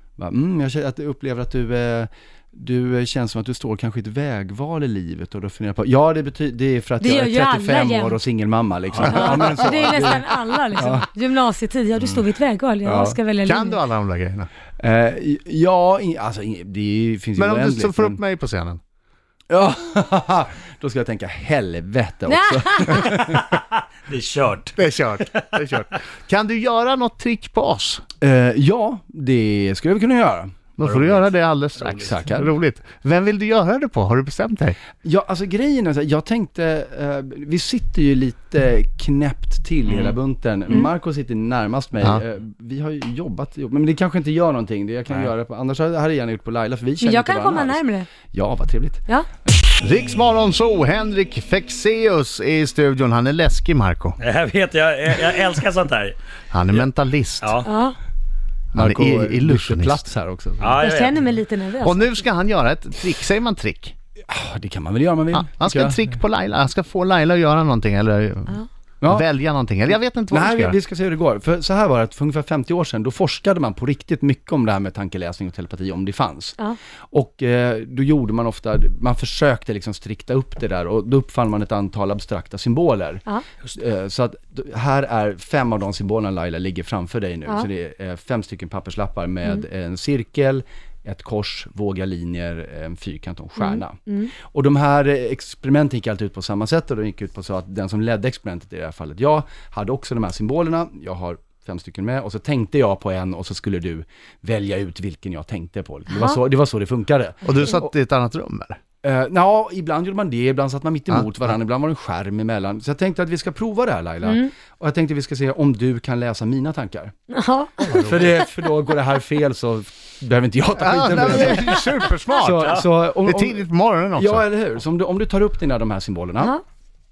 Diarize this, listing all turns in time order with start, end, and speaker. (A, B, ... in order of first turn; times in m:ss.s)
0:00.2-0:11.0 A
0:07.0-0:08.2 B
0:08.9-0:09.2 C
0:09.0-0:13.8 B
0:12.8-0:13.2 A
0:13.4-0:14.5 D
0:14.8-0:18.2 A
0:17.4-0:18.8 D
0:19.5-0:23.5 A
0:22.3-0:23.2 B
0:23.3-0:24.8 C
0:24.8-0:28.0 D
0:28.2-0:30.5 A
0:30.8-0:34.8 D
0:30.8-0:32.1 C
0:32.0-0:32.5 A
0:35.0-0:49.0 A
0:39.8-0:40.2 C
0:47.0-0:48.1 B
0:49.8-0:54.2 D
0:54.2-0:56.2 C
0:56.5-0:57.6 D
0:57.4-0:57.7 C
0:57.6-0:58.0 B
0:58.7-1:00.0 D
0:58.7-1:00.8 A
1:00.6-1:01.2 C
1:00.8-1:02.1 B
1:01.8-1:03.9 D
1:04.3-1:06.0 A
1:05.3-1:10.8 D
1:09.0-1:09.3 A
1:10.3-1:16.6 A
1:17.1-1:47.8 A
1:33.6-1:34.3 B
1:46.1-1:46.4 B
1:47.4-1:48.8 D
1:49.0-1:57.1 A
1:54.2-1:54.5 B
1:57.3-1:57.7 B
1:57.8-1:58.3 D
1:58.0-2:06.5 A
2:00.8-2:04.4 D